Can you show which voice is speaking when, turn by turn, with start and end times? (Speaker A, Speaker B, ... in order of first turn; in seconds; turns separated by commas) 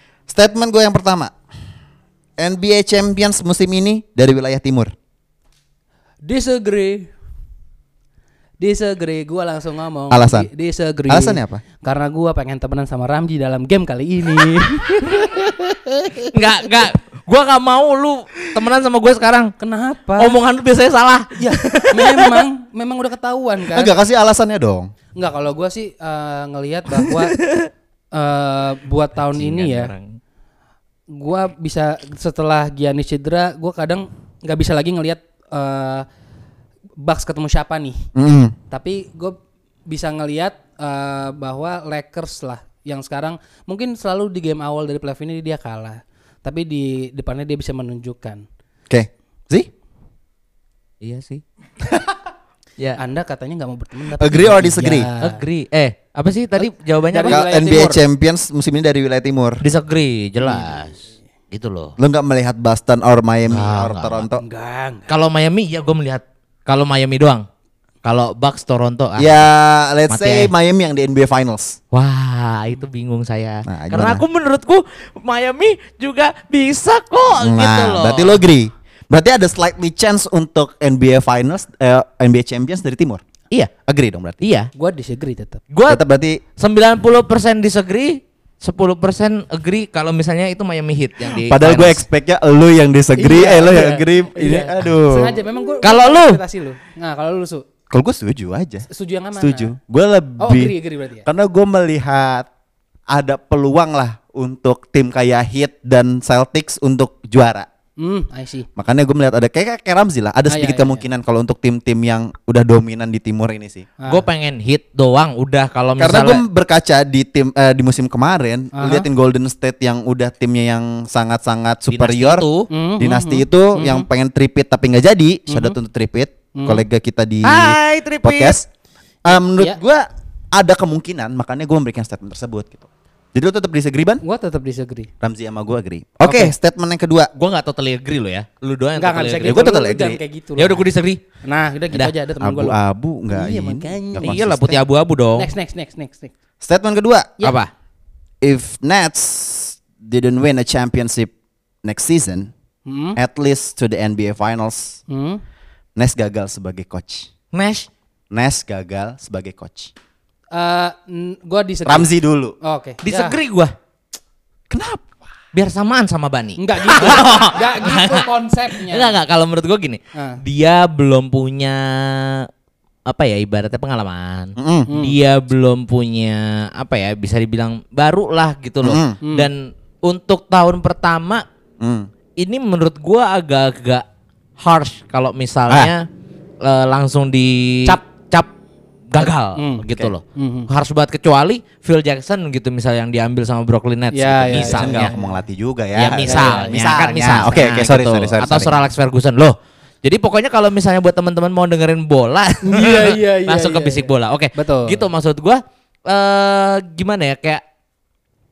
Speaker A: 0.3-1.3, Speaker A: 2.4-4.9, Speaker B: 6.2-7.1, Speaker B: 8.6-15.5, Speaker A: 10.1-10.5, Speaker A: 11.1-11.6, Speaker C: 15.1-19.5, Speaker B: 19.6-20.4, Speaker C: 20.2-22.4, Speaker B: 21.4-23.9, Speaker A: 23.7-24.9, Speaker B: 25.2-27.4, Speaker C: 27.0-27.7, Speaker B: 28.1-29.9, Speaker C: 29.3-30.2, Speaker B: 31.1-36.1, Speaker B: 37.0-38.1, Speaker A: 38.1-38.5, Speaker B: 38.7-48.5, Speaker A: 48.9-49.7, Speaker C: 51.0-51.4, Speaker B: 53.0-55.4, Speaker A: 54.2-55.1, Speaker C: 55.2-57.4, Speaker B: 56.6-58.0, Speaker A: 57.3-59.6, Speaker C: 59.6-61.0, Speaker B: 60.4-60.8, Speaker C: 61.5-61.9, Speaker A: 62.0-64.4, Speaker C: 63.5-64.3, Speaker B: 64.4-65.1, Speaker C: 65.1-67.5, Speaker C: 68.0-69.4, Speaker A: 69.2-71.8, Speaker C: 70.1-70.5, Speaker C: 71.9-78.4, Speaker A: 73.7-74.2, Speaker A: 77.4-83.2, Speaker A: 83.8-84.4, Speaker C: 84.4-84.7, Speaker B: 84.8-85.6, Speaker C: 85.7-86.0, Speaker A: 85.9-86.4, Speaker C: 86.6-92.0, Speaker A: 91.3-95.4, Speaker B: 93.2-97.6, Speaker C: 95.8-96.4, Speaker A: 97.9-98.9, Speaker B: 98.9-99.7, Speaker A: 99.4-102.5, Speaker B: 100.4-101.3, Speaker A: 103.1-107.7, Speaker B: 108.0-108.7, Speaker A: 108.8-113.9, Speaker B: 110.5-111.0, Speaker C: 114.1-116.4, Speaker A: 116.0-122.5, Speaker B: 118.7-119.1, Speaker C: 121.9-122.7, Speaker B: 122.7-124.1, Speaker A: 123.0-128.7, Speaker B: 125.5-125.8, Speaker B: 126.5-126.8, Speaker C: 127.4-128.6, Speaker A: 129.2-134.2, Speaker B: 134.2-135.1, Speaker A: 135.2-137.3, Speaker B: 136.2-136.5, Speaker C: 137.4-139.7, Speaker B: 139.0-140.9, Speaker A: 139.4-140.2, Speaker C: 140.6-141.2, Speaker B: 141.4-142.8, Speaker A: 142.4-144.6, Speaker B: 143.3-146.3, Speaker C: 144.2-145.5, Speaker A: 146.6-147.4, Speaker C: 147.4-147.7, Speaker A: 148.4-151.3, Speaker A: 151.8-152.5, Speaker B: 152.9-153.2, Speaker A: 153.2-155.0, Speaker B: 155.1-155.4, Speaker A: 156.0-157.3, Speaker C: 157.5-157.9, Speaker A: 158.3-159.9, Speaker B: 160.5-162.1, Speaker A: 161.9-162.6, Speaker B: 162.6-163.4, Speaker C: 163.0-163.7, Speaker A: 164.7-165.2, Speaker C: 165.5-172.5, Speaker B: 166.6-169.2, Speaker B: 170.1-170.4, Speaker C: 173.1-181.4, Speaker A: 174.6-174.9, Speaker B: 174.9-175.2, Speaker A: 178.8-179.2, Speaker B: 179.2-179.5, Speaker A: 181.8-182.1, Speaker C: 182.4-184.0, Speaker C: 184.6-186.1, Speaker C: 186.6-188.5, Speaker C: 189.1-195.1, Speaker B: 189.2-190.7, Speaker B: 194.1-195.4, Speaker A: 194.5-198.9, Speaker C: 195.9-207.6, Speaker B: 196.2-197.1, Speaker B: 202.6-205.1